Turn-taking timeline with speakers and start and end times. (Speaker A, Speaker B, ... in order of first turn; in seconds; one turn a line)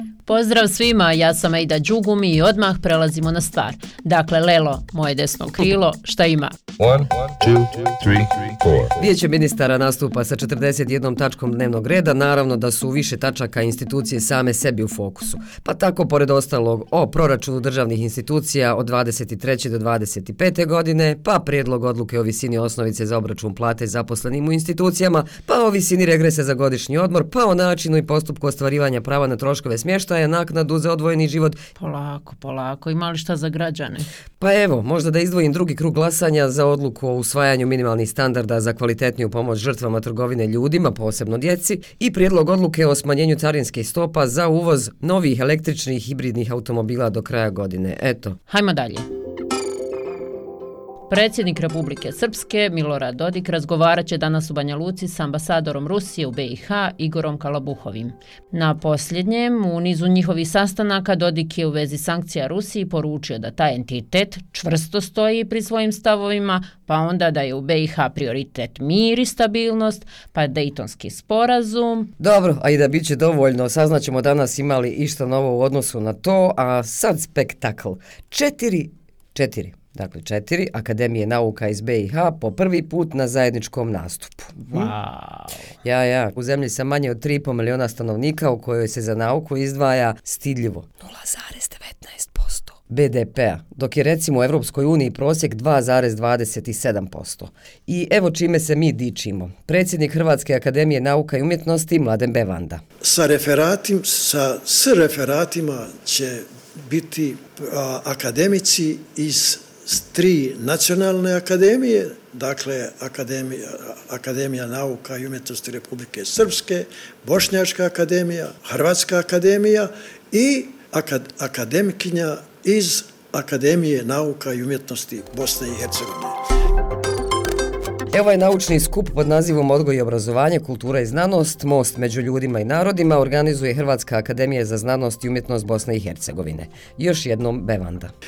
Speaker A: 0.2-6.5
Speaker B: 6.8-8.9
Speaker C: 8.9-31.6
Speaker A: 31.8-34.1
Speaker C: 34.4-48.4
Speaker A: 48.5-49.0
Speaker A: 51.1-72.1
Speaker C: 72.2-84.9
Speaker A: 84.7-85.6
Speaker C: 85.8-102.8
Speaker D: 103.0-126.3
Speaker C: 128.1-138.1